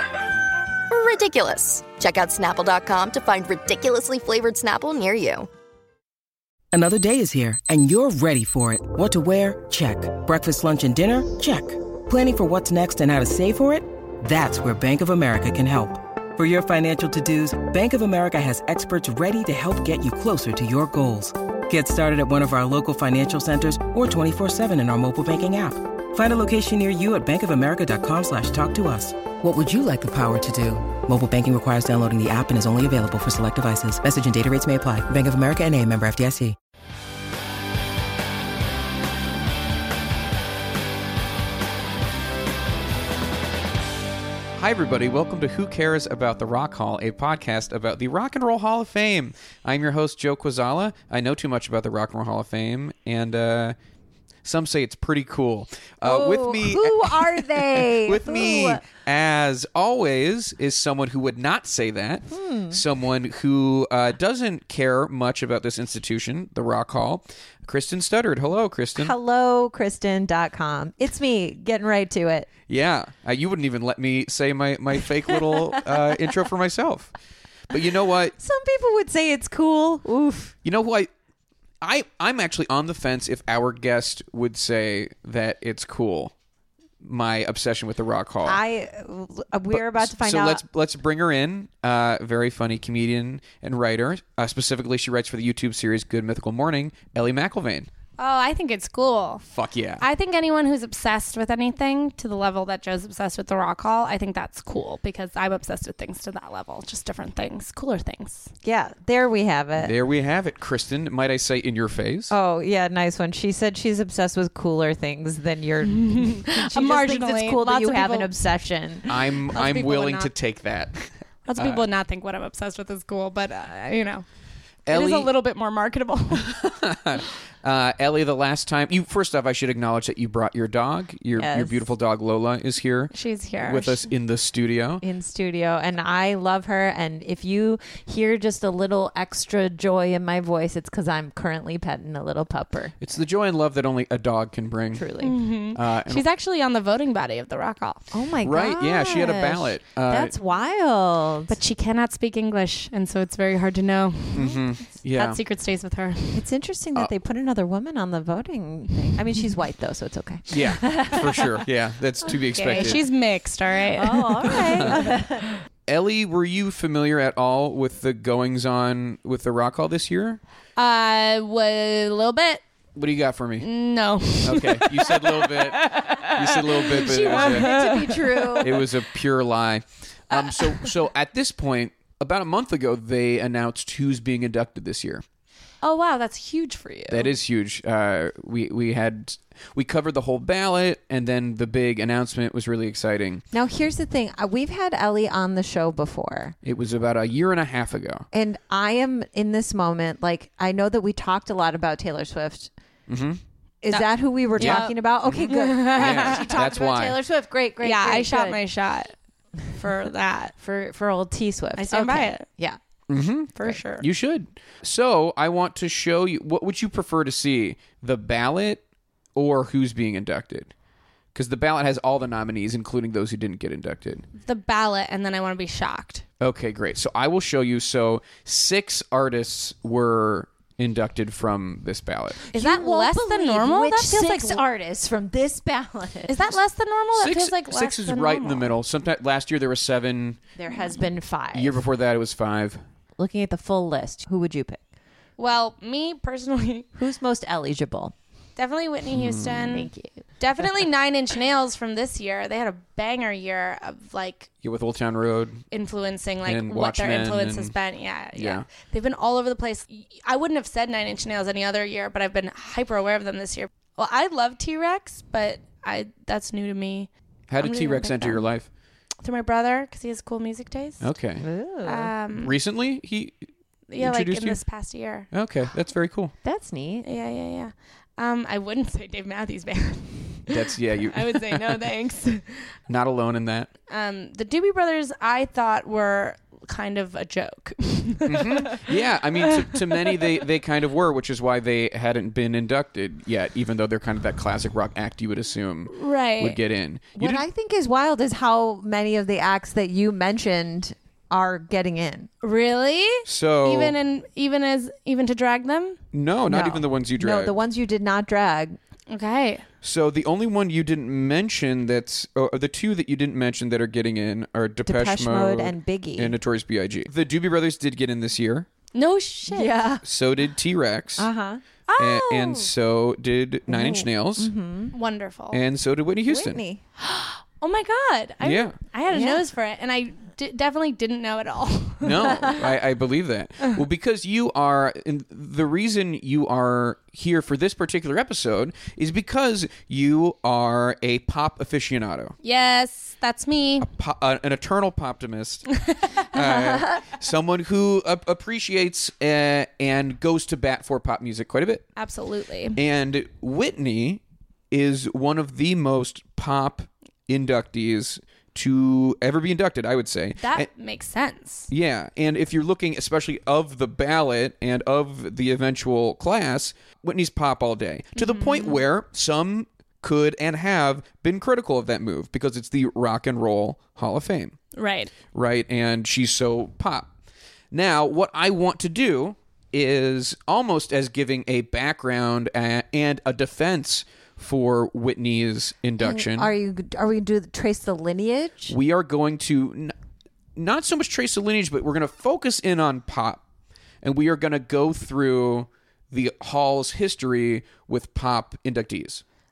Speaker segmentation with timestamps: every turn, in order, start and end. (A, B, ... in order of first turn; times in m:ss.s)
0:00.9-0:05.5 A
0:06.7-0:36.6 B
0:44.6-0:53.7 C
0:54.4-1:09.1 C
0:56.0-0:58.8 D
1:02.3-1:02.8 D
1:09.0-1:12.5 D
1:12.7-1:17.1 C
1:15.3-1:16.2 D
1:17.7-1:18.4 C
1:18.4-1:20.5 D
1:20.6-1:21.1 C
1:21.8-1:26.3 C
1:27.0-1:28.6 C
1:28.4-1:30.6 D
1:29.7-1:37.9 C
1:38.2-1:39.4 E
1:39.5-1:40.0 C
1:40.0-1:48.5 E
1:48.6-1:49.9 D
1:49.8-1:52.3 C
1:52.3-1:59.1 D
1:55.9-1:58.3 E
1:59.1-2:01.8 C
1:59.5-2:00.3 E
2:01.4-2:04.2 E
2:04.9-2:05.3 C
2:04.9-2:06.5 E
2:06.4-2:15.0 C
2:11.3-2:11.8 D
2:13.1-2:14.1 E
2:15.0-2:23.0 D
2:23.0-2:25.1 C
2:24.9-2:25.4 D
2:25.2-2:28.1 E
2:25.7-2:26.2 C
2:28.1-2:31.6 D
2:28.4-2:30.3 C
2:31.5-2:34.6 E
2:34.3-2:35.4 C
2:34.4-2:34.6 D
2:35.1-2:36.4 E
2:36.3-2:41.6 D
2:40.5-2:43.0 C
2:42.5-2:45.0 E
2:43.9-2:45.5 D
2:44.6-2:45.0 C
2:45.9-2:50.4 C
2:50.8-2:52.6 E
2:52.9-2:53.7 C
2:53.6-2:58.6 E
2:54.4-2:57.8 C
2:57.2-2:58.8 D
2:58.6-3:05.2 C
3:00.3-3:00.9 E
3:05.8-3:07.3 E
3:07.1-3:13.4 C
3:13.5-3:16.6 D
3:16.6-3:18.2 C
3:18.3-3:22.7 D
3:23.1-3:23.4 C
3:23.8-3:28.6 D
3:23.9-3:26.6 E
3:24.6-3:27.2 C
3:27.8-3:29.1 E
3:29.7-3:30.5 E
3:30.6-3:32.8 D
3:31.8-3:32.4 E
3:33.1-3:38.8 C
3:33.5-3:34.0 E
3:39.4-3:40.7 C
3:41.3-3:44.2 C
3:44.4-3:46.2 E
3:46.4-3:52.4 C
3:52.5-3:56.5 D
3:52.5-3:54.6 E
3:56.3-3:58.7 E
3:57.1-4:00.4 C
4:00.6-4:01.8 D
4:01.5-4:02.8 C
4:03.2-4:04.8 D
4:05.4-4:06.9 E
4:07.0-4:08.1 D
4:08.6-4:14.5 E
4:09.1-4:09.8 C
4:09.7-4:10.2 D
4:14.6-4:15.6 C
4:15.7-4:28.4 E
4:16.4-4:17.7 C
4:18.4-4:18.6 C
4:27.5-4:28.7 C
4:29.2-4:31.0 E
4:31.0-4:31.4 C
4:31.4-4:32.1 D
4:31.8-4:32.5 E
4:32.4-4:33.4 C
4:33.9-4:35.3 E
4:34.0-4:34.6 C
4:35.3-4:36.3 C
4:36.4-4:37.1 D
4:37.0-4:40.6 E
4:40.5-4:41.7 C
4:41.1-4:42.7 E
4:42.9-4:43.7 C
4:43.9-4:48.9 E
4:48.2-4:57.4 C
4:49.7-4:50.1 E
4:55.9-4:56.6 E
4:57.2-5:02.3 D
5:02.4-5:06.0 E
5:03.2-5:03.9 C
5:06.1-5:07.5 C
5:06.5-5:08.8 D
5:09.1-5:09.6 E
5:09.8-5:18.7 C
5:14.8-5:16.4 D
5:18.9-5:19.8 E
5:19.5-5:20.0 D
5:20.0-5:21.3 C
5:21.2-5:21.6 D
5:21.9-5:22.6 E
5:22.0-5:24.5 C
5:23.7-5:24.9 D
5:24.9-5:25.6 E
5:25.5-5:26.6 C
5:26.3-5:26.8 D
5:27.0-5:32.3 E
5:28.4-5:28.7 C
5:29.1-5:29.4 D
5:32.0-5:42.3 C
5:42.4-5:43.9 E
5:43.8-5:51.9 C
5:46.3-5:47.0 D
5:52.0-5:52.8 E
5:52.8-6:00.7 C
6:00.4-6:01.7 E
6:01.7-6:14.6 C
6:08.2-6:08.8 E
6:14.8-6:15.1 E
6:15.3-6:17.1 C
6:17.7-6:26.5 C
6:26.0-6:28.8 D
6:28.7-6:29.9 C
6:30.6-6:33.4 C
6:34.0-6:39.2 C